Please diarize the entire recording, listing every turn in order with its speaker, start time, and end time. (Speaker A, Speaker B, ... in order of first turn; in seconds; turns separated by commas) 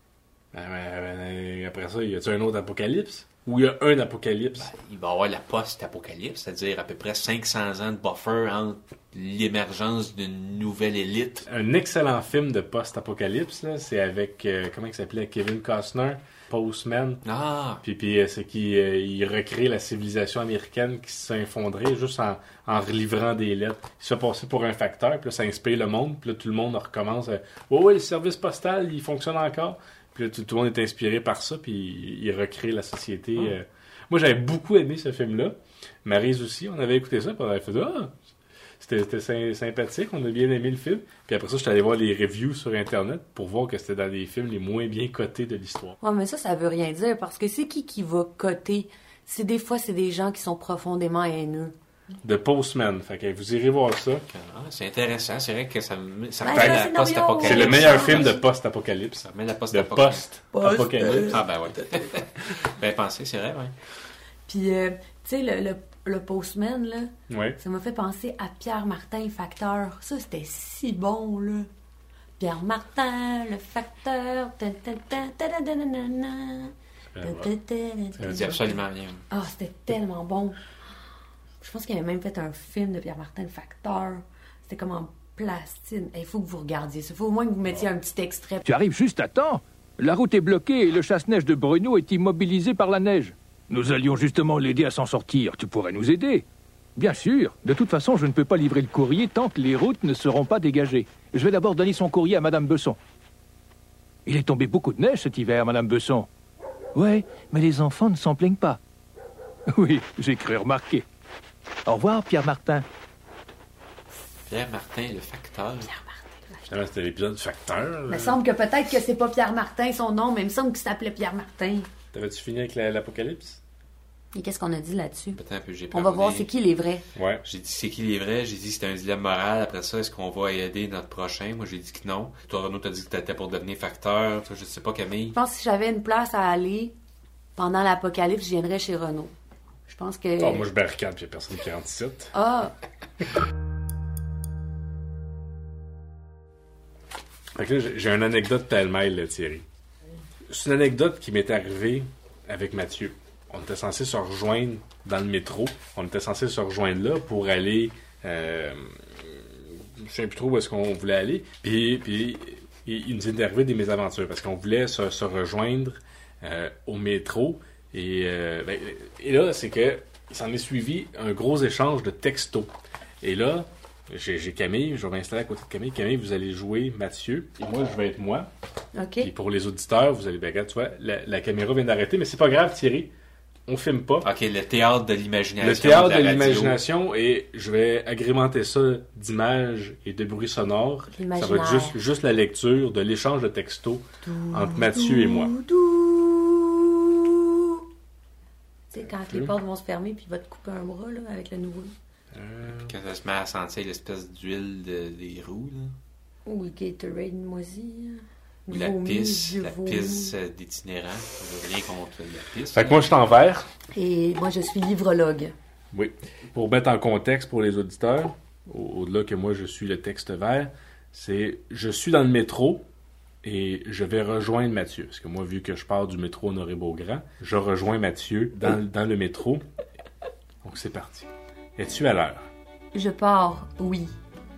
Speaker A: 0.5-4.7, Speaker B: 4.6-11.5, Speaker A: 11.5-17.2, Speaker B: 17.2-17.8, Speaker A: 17.8-38.1, Speaker A: 38.8-46.0, Speaker C: 46.0-51.7, Speaker A: 52.2-54.2, Speaker B: 54.3-58.4, Speaker C: 56.4-58.4, Speaker A: 56.5-56.8, Speaker A: 57.4-61.4, Speaker B: 59.2-60.2, Speaker C: 60.5-61.4, Speaker B: 61.0-63.7, Speaker C: 64.5-71.7, Speaker A: 67.3-67.6, Speaker C: 72.4-78.7, Speaker A: 77.2-77.5, Speaker A: 78.2-78.6, Speaker B: 78.3-79.2, Speaker C: 79.3-80.6, Speaker C: 81.6-88.6, Speaker D: 88.7-103.0, Speaker D: 104.3-106.3, Speaker D: 106.9-108.8, Speaker D: 109.7-111.0, Speaker D: 111.8-112.8, Speaker B: 114.5-115.9, Speaker C: 116.3-116.7, Speaker A: 116.7-118.4, Speaker C: 118.1-121.9, Speaker A: 122.1-123.6, Speaker C: 124.3-125.4, Speaker B: 125.3-126.5, Speaker C: 125.9-127.1, Speaker A: 127.2-127.4, Speaker B: 127.4-135.4, Speaker C: 135.3-136.9, Speaker C: 137.6-139.3, Speaker C: 139.9-140.7, Speaker A: 140.4-142.3, Speaker C: 142.3-142.7, Speaker A: 147.6-149.7, Speaker A: 150.5-172.7, Speaker A: 173.2-178.5, Speaker C: 178.9-179.3, Speaker A: 179.2-183.1, Speaker A: 183.7-184.3, Speaker B: 184.2-186.8, Speaker A: 185.6-195.6, Speaker C: 191.1-192.0, Speaker C: 194.2-197.8, Speaker C: 198.9-201.9, Speaker A: 199.0-199.6, Speaker A: 202.3-202.9, Speaker B: 202.7-205.9, Speaker C: 206.4-210.3, Speaker B: 208.7-213.0, Speaker A: 212.7-213.7, Speaker C: 213.9-215.5, Speaker A: 215.9-222.8, Speaker A: 223.4-229.6, Speaker A: 230.6-232.4, Speaker C: 232.9-234.1